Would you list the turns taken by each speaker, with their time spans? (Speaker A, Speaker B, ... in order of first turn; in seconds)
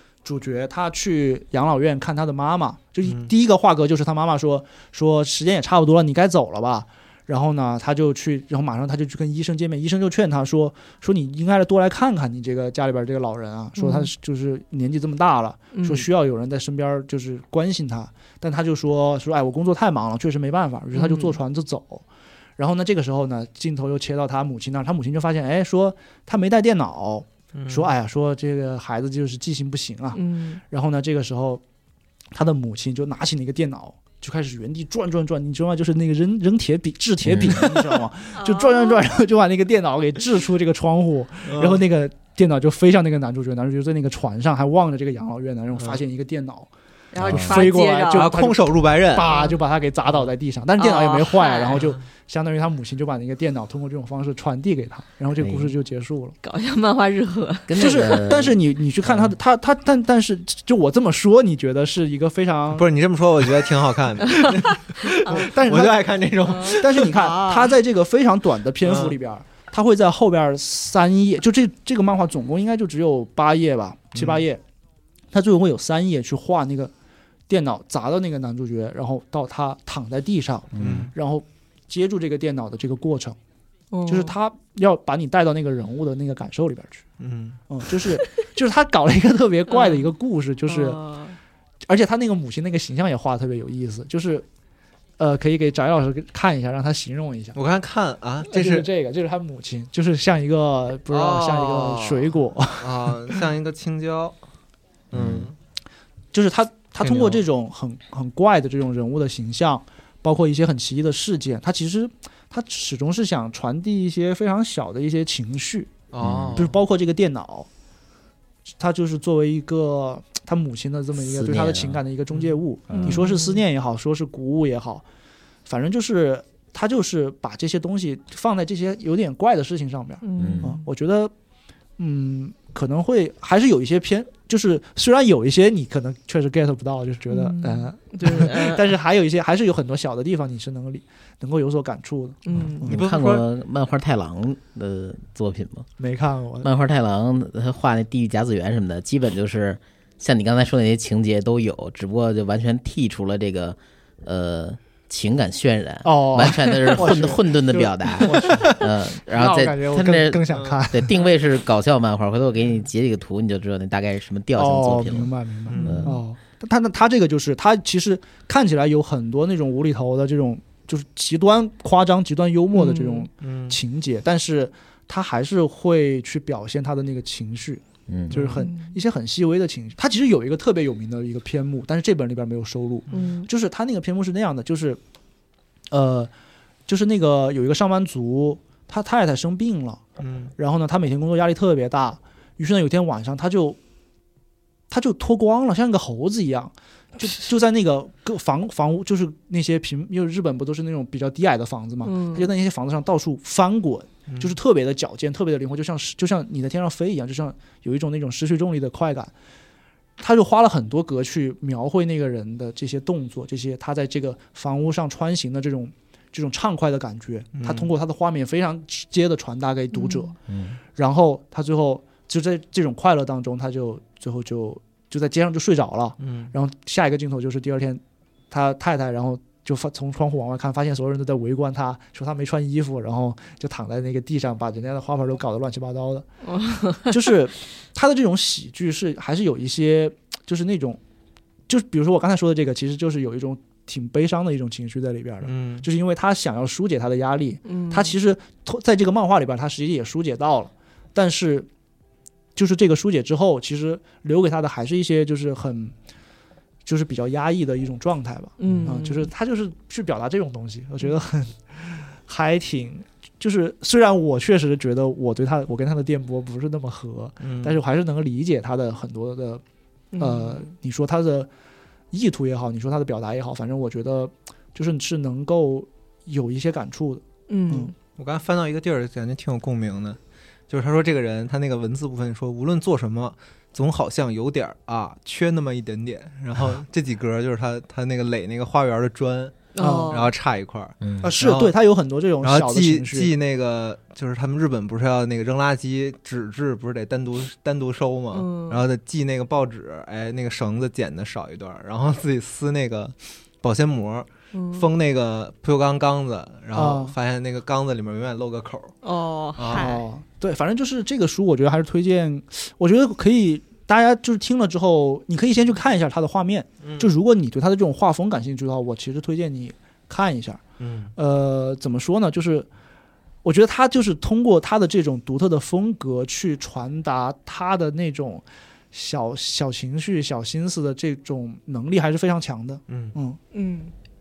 Speaker A: 0.2-22.0, 22.6-31.6, 32.3-56.4, 57.7-62.9, 65.2-66.0, 66.6-74.6, 75.3-76.9, 77.5-83.4, 84.1-87.0, 87.7-91.0, 91.8-94.5, 95.2-97.6, 98.5-103.4, 106.3-115.9, 116.5-117.7, 118.8-125.0, 125.7-131.3, 132.0-143.0, 146.0-146.7, 156.0-161.3, 164.6-185.0, 185.9-186.3, 186.9-190.0, 190.6-193.8, 194.9-209.3, 210.2-220.3, 220.9-236.2, 237.0-241.0, 241.7-251.7, 252.6-255.9, 256.9-269.6, 270.2-271.5, 272.1-277.9, 289.8-290.1, 291.2-293.3, 306.7-307.1, 309.7-320.6, 321.1-322.7, 323.4-333.4
Speaker B: 3.0-3.3, 27.5-27.9, 41.5-41.8, 48.1-49.3, 51.7-52.0, 62.7-67.1, 68.8-69.1, 74.1-74.4, 80.8-81.1, 87.2-87.6, 97.5-98.9, 101.1-104.4, 105.1-105.5, 107.0-107.4, 116.1-116.8, 142.8-143.5, 160.5-160.8, 165.7-166.1, 173.4-173.8, 178.3-178.6, 190.2-190.5, 204.3-204.6, 217.5-217.9, 226.2-226.5, 245.4-245.8, 267.4-267.8, 278.1-280.2, 280.7-291.7, 292.4-308.9, 309.6-309.8, 316.8-317.1, 320.8-321.1, 332.9-333.1
Speaker C: 13.8-14.1, 15.7-16.1, 20.9-21.4, 30.1-30.6, 38.3-39.0, 47.1-48.3, 49.3-49.6, 50.8-51.8, 56.4-58.1, 64.3-65.5, 66.4-67.7, 83.9-84.3, 89.7-90.1, 90.7-91.4, 122.9-123.6, 130.2-130.8, 137.3-138.9, 142.4-142.9, 165.8-166.1, 172.7-173.3, 178.5-178.9, 183.1-183.5, 202.0-202.5, 219.9-220.3, 236.4-237.2, 247.7-248.2, 258.6-259.3, 270.1-270.7, 277.5-277.9, 289.7-290.3, 298.3-298.8, 304.5-304.9, 309.0-310.0, 333.5-333.9
Speaker D: 37.2-37.8, 47.2-47.6, 55.4-55.7, 57.7-58.6, 80.7-81.1, 105.1-105.5, 116.2-116.7, 121.2-122.0, 122.9-123.2, 130.4-130.7, 142.8-145.9, 146.6-165.3, 165.8-166.2, 178.1-178.3, 220.5-220.8, 291.0-291.3